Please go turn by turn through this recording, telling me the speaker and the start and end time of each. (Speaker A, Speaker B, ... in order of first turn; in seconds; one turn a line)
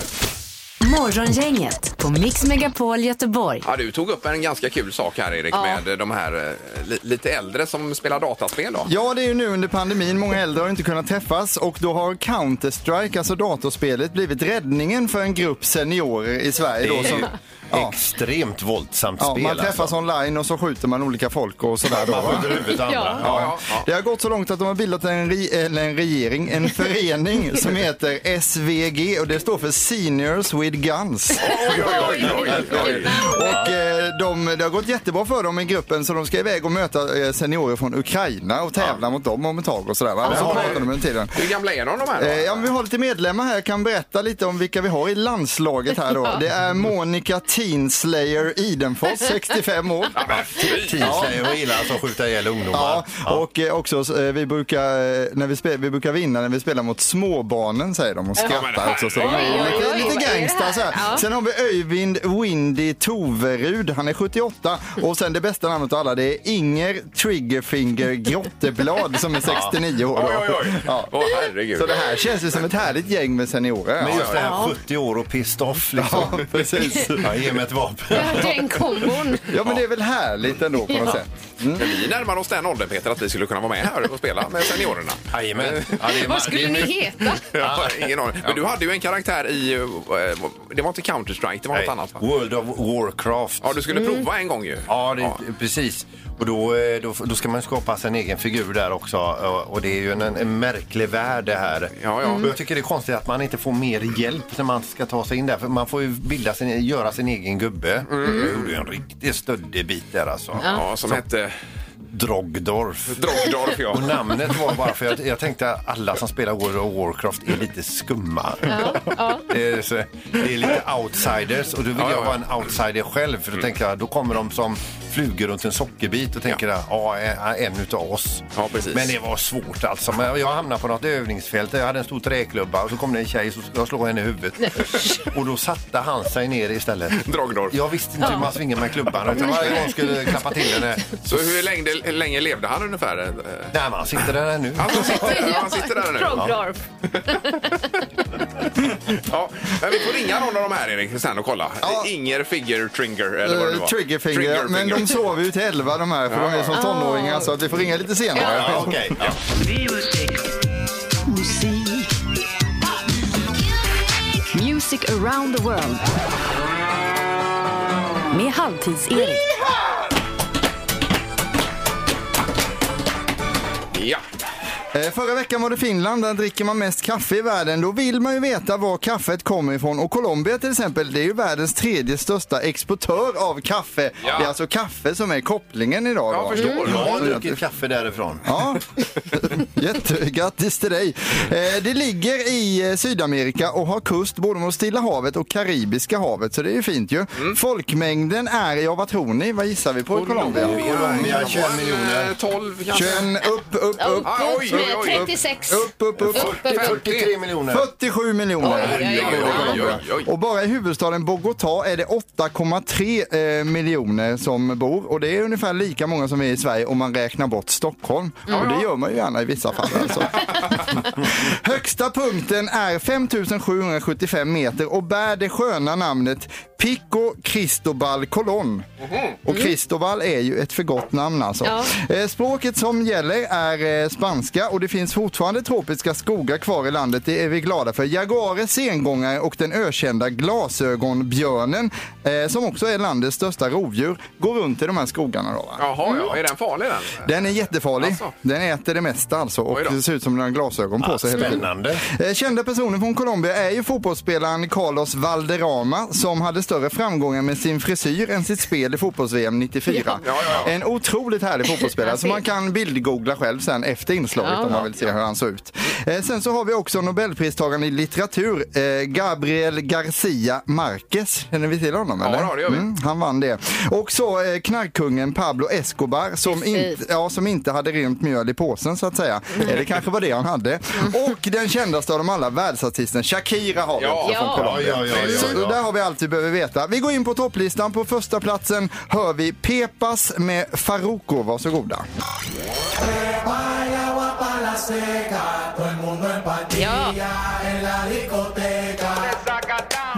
Speaker A: 0.8-3.6
Speaker B: 3.6-8.9
Speaker C: 5.5-5.8
Speaker D: 8.9-17.9
Speaker E: 16.8-19.9
Speaker B: 16.9-17.2
Speaker D: 19.2-22.6
Speaker E: 21.8-23.5
Speaker C: 22.4-23.2
Speaker B: 23.2-23.9
Speaker D: 23.2-41.3
Speaker B: 31.4-33.1
Speaker C: 31.5-33.6
Speaker E: 32.4-33.7
Speaker E: 40.2-40.9
Speaker B: 40.3-40.8
Speaker B: 41.3-42.7
Speaker D: 42.2-50.1
Speaker B: 50.1-51.3
Speaker E: 50.2-53.4
Speaker D: 51.0-51.3
Speaker D: 52.7-71.1
Speaker C: 58.4-61.2
Speaker B: 58.4-60.2
Speaker E: 69.4-69.8
Speaker B: 70.1-72.0
Speaker D: 71.7-74.3
Speaker E: 74.0-79.1
Speaker B: 74.1-74.4
Speaker C: 74.4-74.7
Speaker D: 76.0-77.3
Speaker C: 78.1-79.5
Speaker D: 79.5-81.9
Speaker C: 80.9-81.2
Speaker B: 81.8-86.0
Speaker E: 85.3-88.6
Speaker C: 86.1-87.5
Speaker B: 87.4-92.2
Speaker E: 91.7-93.8
Speaker B: 93.6-95.4
Speaker C: 93.9-94.2
Speaker E: 94.9-111.2
Speaker B: 102.0-102.5
Speaker C: 102.2-102.5
Speaker B: 108.1-108.7
Speaker B: 110.6-111.5
Speaker E: 112.1-141.2
Speaker B: 113.1-114.3
Speaker C: 118.7-119.5
Speaker B: 122.0-122.5
Speaker B: 128.6-129.1
Speaker C: 134.6-135.2
Speaker B: 137.1-137.8
Speaker C: 138.2-138.5
Speaker C: 139.3-140.8
Speaker B: 141.2-143.7
Speaker E: 143.7-145.4
Speaker B: 144.7-146.5
Speaker C: 144.9-147.7
Speaker E: 146.3-146.6
Speaker B: 147.2-147.8
Speaker B: 149.1-155.2
Speaker D: 151.8-152.1
Speaker D: 153.4-159.2
Speaker B: 156.3-156.8
Speaker C: 156.7-157.5
Speaker C: 158.3-158.8
Speaker E: 158.4-159.4
Speaker A: 161.3-162.0
Speaker A: 164.5-166.0
Speaker A: 168.3-169.4
Speaker B: 173.9-174.2
Speaker D: 174.9-187.6
Speaker B: 184.2-184.5
Speaker B: 186.3-187.4
Speaker E: 186.8-188.7
Speaker D: 188.4-200.8
Speaker B: 200.1-203.3
Speaker E: 200.4-202.3
Speaker D: 202.9-206.5
Speaker C: 204.0-207.0
Speaker B: 204.2-205.3
Speaker E: 206.2-207.9
Speaker B: 206.4-207.3
Speaker D: 207.7-228.8
Speaker C: 208.6-209.9
Speaker B: 208.7-210.3
Speaker E: 208.8-209.9
Speaker B: 218.5-218.8
Speaker B: 229.1-229.3
Speaker D: 229.4-245.8
Speaker C: 229.5-229.7
Speaker C: 231.6-231.9
Speaker B: 245.8-247.4
Speaker D: 247.2-292.0
Speaker B: 248.0-248.3
Speaker B: 249.7-250.0
Speaker E: 251.0-252.0
Speaker B: 260.2-260.7
Speaker C: 261.8-262.4
Speaker C: 264.4-264.8
Speaker B: 272.2-272.9
Speaker C: 276.5-277.0
Speaker B: 284.0-284.4
Speaker C: 284.2-285.5
Speaker E: 284.6-285.8
Speaker C: 296.7-297.2